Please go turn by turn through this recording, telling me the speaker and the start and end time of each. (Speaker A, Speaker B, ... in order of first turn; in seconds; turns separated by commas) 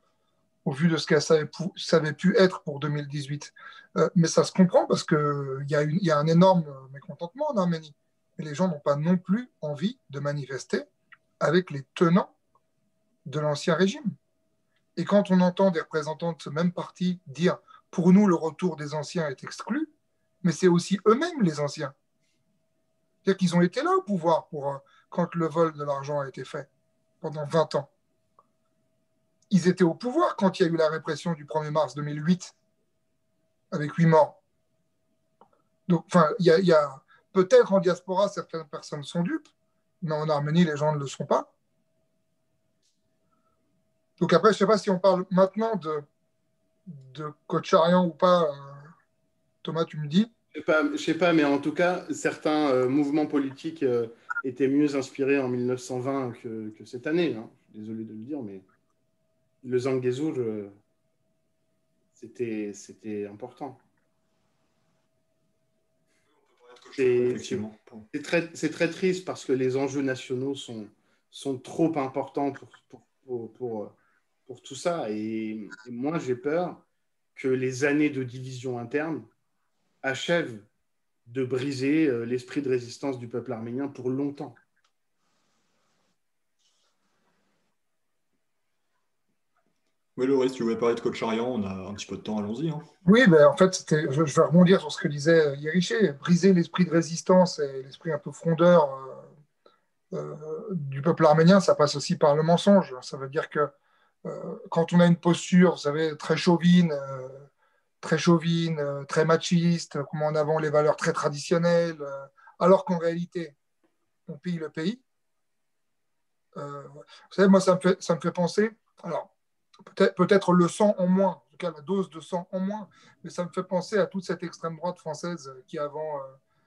Speaker A: 0.6-10.8, Speaker A: 11.4-12.3, Speaker A: 13.2-14.1, Speaker A: 14.9-19.9, Speaker A: 20.4-21.9, Speaker A: 23.2-26.7, Speaker A: 27.2-27.9, Speaker A: 29.5-32.5, Speaker A: 33.7-34.4, Speaker A: 35.9-39.5, Speaker A: 40.0-41.5, Speaker A: 44.2-46.0, Speaker A: 46.9-48.9, Speaker A: 49.6-50.3, Speaker B: 50.5-58.6, Speaker B: 59.6-60.7, Speaker B: 62.2-63.8, Speaker C: 66.4-68.1, Speaker B: 67.0-73.9, Speaker B: 74.5-76.8, Speaker B: 77.3-79.3, Speaker B: 80.0-80.7, Speaker B: 81.3-84.6, Speaker C: 90.2-92.9, Speaker A: 93.0-99.3, Speaker A: 100.1-103.7, Speaker A: 104.2-107.5, Speaker A: 108.0-113.5, Speaker A: 114.3-115.0, Speaker A: 116.5-119.3, Speaker A: 119.8-126.3